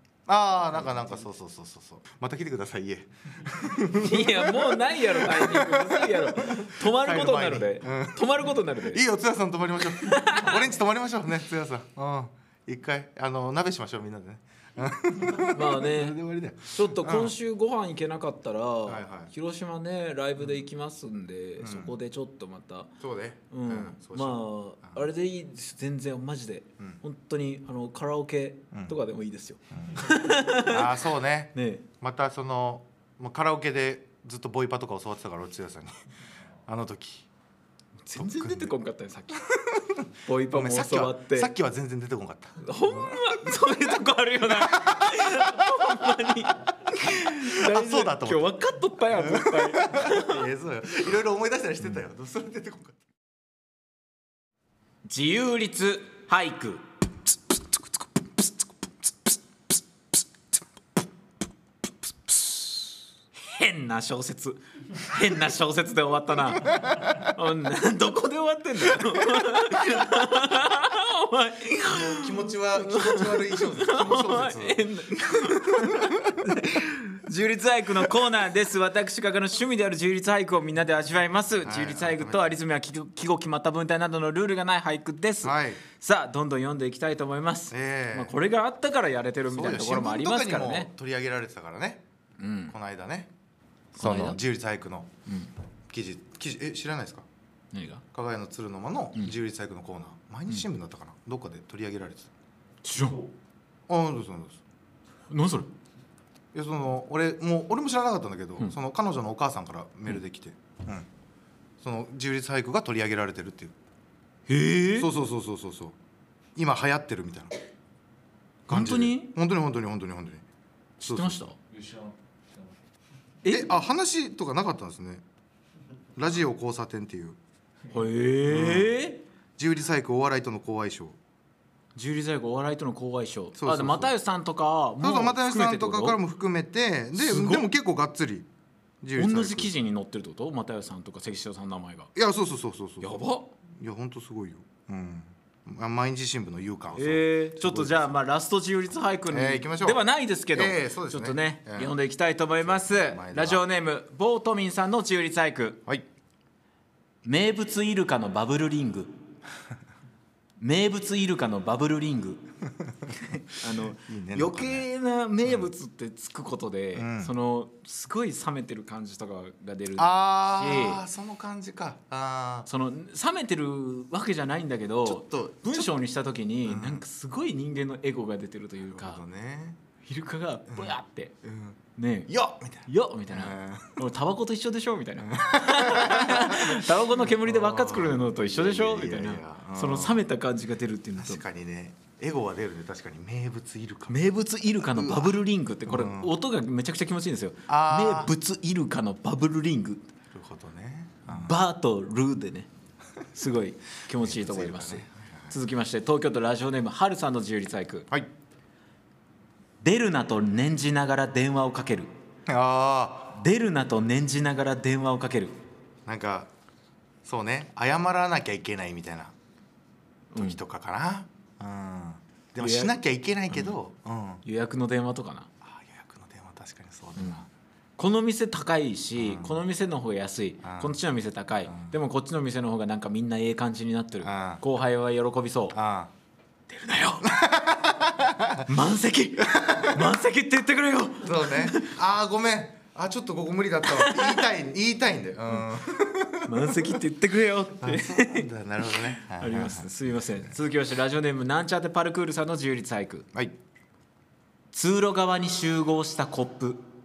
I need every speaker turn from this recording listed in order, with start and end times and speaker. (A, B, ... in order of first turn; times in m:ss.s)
0:00.3-0:17.3 A
0:00.8-0:01.2 B
0:04.0-0:09.0 B
0:09.9-0:10.7 B
0:15.5-0:16.2 B
0:16.7-0:22.9 B
0:18.8-0:19.3 A
0:21.6-0:21.9 A
0:23.0-0:25.0 A
0:23.5-0:31.0 B
0:29.7-0:30.0 A
0:30.6-0:36.0 A
0:31.5-0:31.8 B
0:36.6-0:37.3 A
0:38.0-0:39.5 B
0:38.1-0:38.7 A
0:39.5-0:43.3 A
0:40.2-0:41.5 B
0:42.6-0:50.4 B
0:44.5-0:45.7 A
0:46.9-0:48.5 A
0:49.1-0:53.0 A
0:55.0-0:56.8 B
1:03.4-1:30.9 B
1:06.7-1:07.0 A
1:11.9-1:14.8 A
1:15.5-1:16.5 A
1:21.6-1:22.6 A
1:25.4-1:25.8 A
1:27.7-1:28.3 A
1:29.5-1:32.0 A
1:32.4-1:32.8 B
1:32.7-1:33.3 A
1:33.9-1:35.1 A
1:34.0-1:34.4 B
1:35.9-1:37.2 A
1:37.7-1:38.0 B
1:38.1-1:42.3 A
1:42.8-1:43.3 B
1:43.9-1:44.6 A
1:45.3-1:45.7 B
1:46.5-1:51.1 A
1:51.8-1:53.7 A
1:54.5-1:55.1 B
1:55.0-1:56.0 A
1:56.6-1:57.5 A
1:58.7-2:00.4 A
1:58.7-1:59.3 B
2:01.0-2:01.6 B
2:01.0-2:01.4 A
2:03.4-2:03.7 B
2:03.5-2:05.2 A
2:06.2-2:07.4 A
2:07.9-2:09.2 B
2:08.5-2:08.9 A
2:09.6-2:11.2 A
2:11.9-2:16.2 B
2:13.5-2:14.1 A
2:15.0-2:18.5 A
2:17.1-2:17.7 B
2:19.0-2:19.7 A
2:19.2-2:22.1 B
2:22.1-2:28.2 A
2:23.0-2:23.5 B
2:26.9-2:35.8 B
2:29.3-2:31.9 A
2:32.6-2:33.6 A
2:37.2-2:39.1 B
2:40.6-2:42.4 B
2:43.1-2:51.0 B
2:43.7-2:44.9 A
2:45.4-2:45.7 A
2:46.9-2:47.3 A
2:50.0-2:52.7 A
2:52.7-2:59.2 B
2:55.0-2:55.9 A
2:56.6-2:57.0 A
2:58.9-2:59.8 A
3:00.0-3:01.3 B
3:00.7-3:04.0 A
3:02.0-3:02.3 B
3:02.8-3:11.4 B
3:05.2-3:10.2 A
3:11.2-3:14.2 A
3:14.1-3:20.0 B
3:14.8-3:16.3 A
3:17.7-3:18.3 A
3:20.3-3:21.6 A
3:21.3-3:22.7 B
3:23.3-3:28.1 B
3:24.1-3:25.6 A
3:29.8-3:32.1 B
3:32.5-3:33.4 A
3:33.3-3:35.5 B
3:36.0-3:36.5 A
3:37.2-3:39.3 A
3:40.3-3:40.6 B
3:40.4-3:44.4 A
3:42.6-3:42.9 B
3:43.5-3:43.8 B
3:44.4-3:45.5 B
3:45.6-3:47.5 A
3:47.2-3:47.4 B
3:48.0-3:55.8 B
3:49.2-3:49.6 A
3:50.6-3:51.0 A
3:51.7-3:51.9 A
3:54.2-3:54.6 A
3:55.7-3:56.1 A
3:56.7-3:57.3 B
3:57.2-3:58.7 A
3:58.6-4:01.9 B
3:59.4-4:00.1 A
4:01.2-4:06.9 A
4:03.8-4:04.4 B
4:06.4-4:13.3 B
4:07.8-4:09.9 A
4:14.7-4:16.8 B